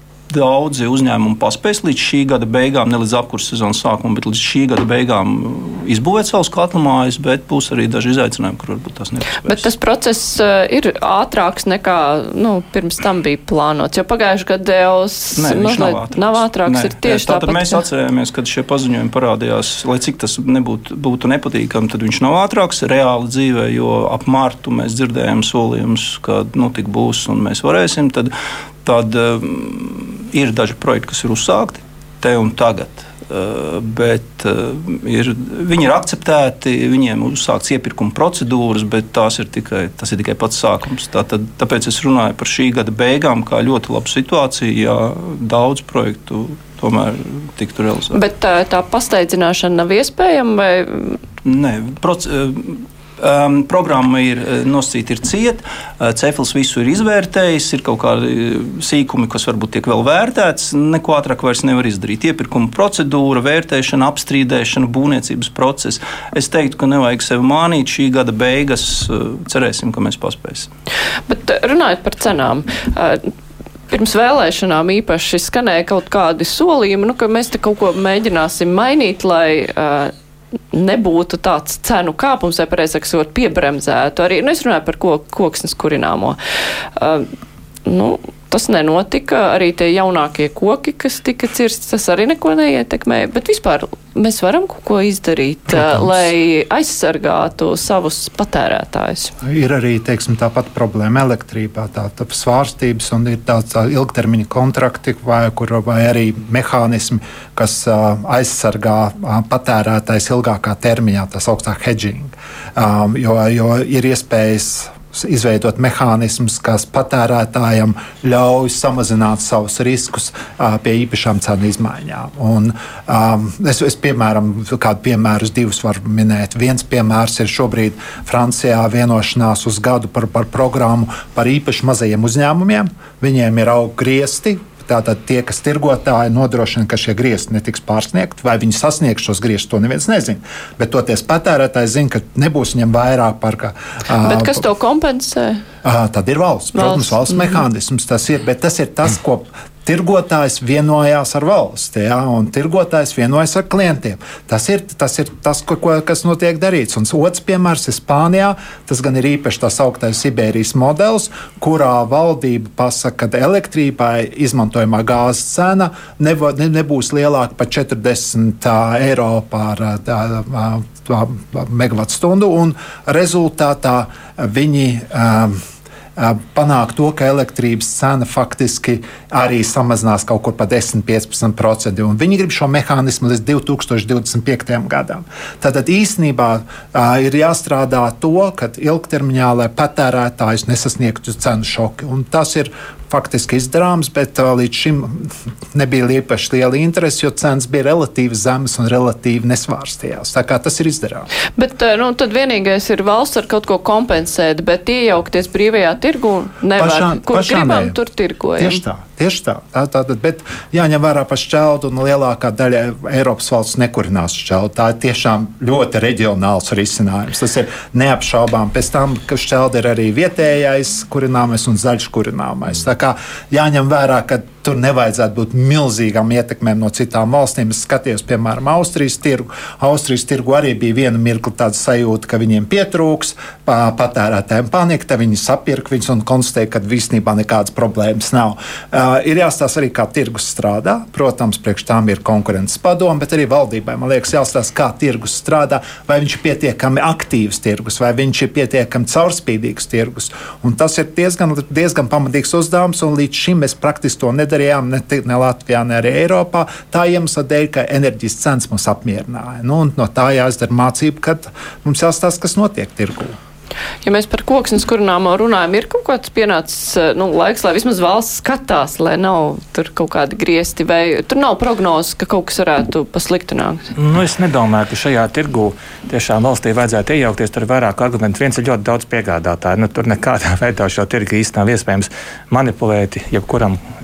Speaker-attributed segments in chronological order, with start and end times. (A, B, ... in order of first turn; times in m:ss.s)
0:00.3-0:09.7 A
0:09.4-0:17.8 B
0:15.4-0:28.3 A
0:28.8-0:48.2 A
0:48.1-0:51.2 B
0:51.4-1:10.7 A
1:11.3-1:13.3 B
1:13.9-1:20.1 B
1:20.7-1:26.4 B
1:27.0-1:27.3 B
1:27.8-1:39.3 B
1:39.4-2:24.6 C
2:24.2-2:25.6 B
2:25.8-2:55.6 C
2:26.8-2:27.6 B
2:56.2-3:21.3 C
3:21.6-3:28.8 B
3:26.8-3:28.0 C
3:28.6-4:23.4 C
4:24.0-4:33.9 B
4:34.0-4:43.8 D